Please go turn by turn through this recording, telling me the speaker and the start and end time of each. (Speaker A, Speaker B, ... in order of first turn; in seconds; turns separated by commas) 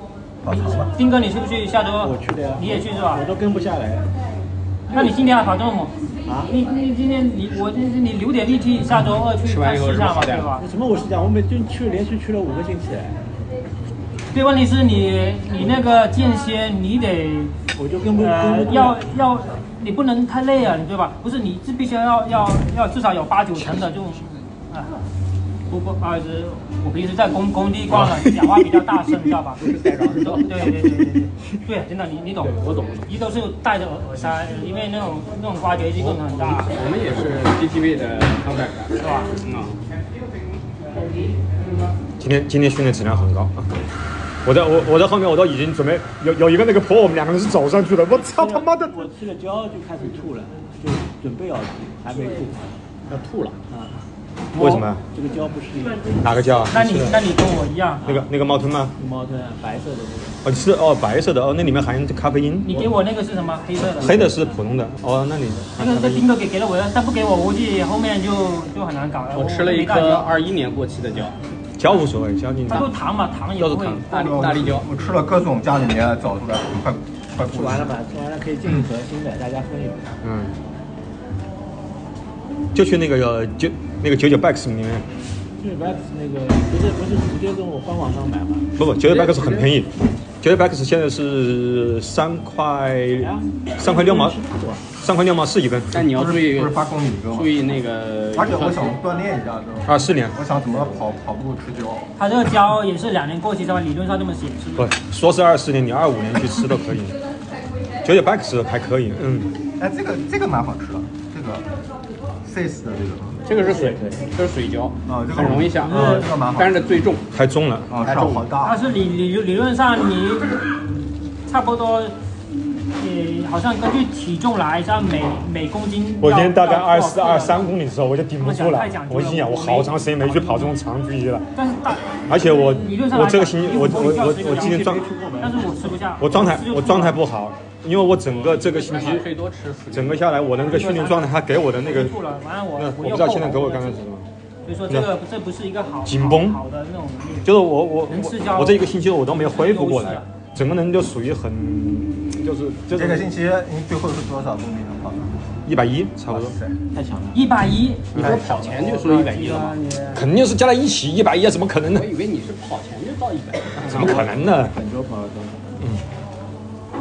Speaker A: 0.4-0.9, Speaker B: 0.5-3.2, Speaker C: 2.0-4.1, Speaker B: 4.9-10.7, Speaker C: 6.2-6.5, Speaker D: 9.4-10.5, Speaker C: 10.6-13.2, Speaker B: 14.3-17.5, Speaker C: 17.7-19.0, Speaker B: 18.1-24.9, Speaker B: 25.7-29.6, Speaker E: 27.9-28.5, Speaker D: 29.6-30.8, Speaker B: 30.3-36.8, Speaker D: 32.4-33.1, Speaker D: 36.0-39.8, Speaker B: 39.0-39.3, Speaker E: 42.2-43.7, Speaker E: 44.4-49.0, Speaker C: 48.1-52.8, Speaker D: 53.1-53.5, Speaker C: 53.7-56.3, Speaker E: 54.5-55.0, Speaker E: 56.2-57.1, Speaker B: 56.7-58.0, Speaker C: 58.0-58.3, Speaker E: 58.0-58.9, Speaker C: 59.0-60.4, Speaker E: 60.4-62.7, Speaker B: 62.6-64.2, Speaker C: 63.8-64.6, Speaker E: 64.0-66.2, Speaker B: 65.8-70.3, Speaker D: 69.3-71.4, Speaker E: 71.8-72.9, Speaker B: 72.7-74.0, Speaker E: 73.6-74.0, Speaker D: 74.1-74.9, Speaker A: 74.1-77.9, Speaker C: 77.4-80.1, Speaker E: 80.2-80.5, Speaker E: 82.7-85.0, Speaker C: 85.6-88.7, Speaker E: 88.8-94.4, Speaker D: 89.1-89.7, Speaker C: 93.2-94.9, Speaker E: 94.9-95.9, Speaker D: 95.9-99.0, Speaker A: 96.0-97.5, Speaker A: 98.3-102.0, Speaker E: 99.9-100.3, Speaker B: 102.2-104.9, Speaker E: 104.8-107.2, Speaker E: 108.0-109.5, Speaker A: 109.8-111.6, Speaker A: 112.4-113.4, Speaker D: 113.4-117.2, Speaker C: 113.6-114.3, Speaker A: 115.1-116.7, Speaker B: 115.9-116.3, Speaker E: 117.3-117.9, Speaker A: 117.9-118.8, Speaker D: 118.0-118.5, Speaker B: 118.6-120.6, Speaker B: 121.5-122.1, Speaker B: 122.9-127.6, Speaker E: 126.2-131.4, Speaker B: 128.4-130.8, Speaker B: 131.5-134.9, Speaker E: 132.2-135.0, Speaker C: 133.7-136.0, Speaker B: 135.4-137.2, Speaker E: 136.2-139.3, Speaker D: 138.3-140.3, Speaker E: 139.9-142.2, Speaker B: 140.7-144.0, Speaker E: 142.7-144.3, Speaker B: 144.7-147.5, Speaker E: 146.1-146.6, Speaker E: 147.4-153.2, Speaker B: 148.1-150.2, Speaker A: 152.9-155.4, Speaker E: 155.7-156.5, Speaker A: 156.3-156.8, Speaker C: 156.9-157.5, Speaker B: 157.3-160.2, Speaker E: 158.1-158.4, Speaker D: 158.1-159.8, Speaker C: 158.2-158.8, Speaker E: 160.1-162.1, Speaker D: 161.9-164.2, Speaker E: 163.8-164.7, Speaker C: 163.9-165.7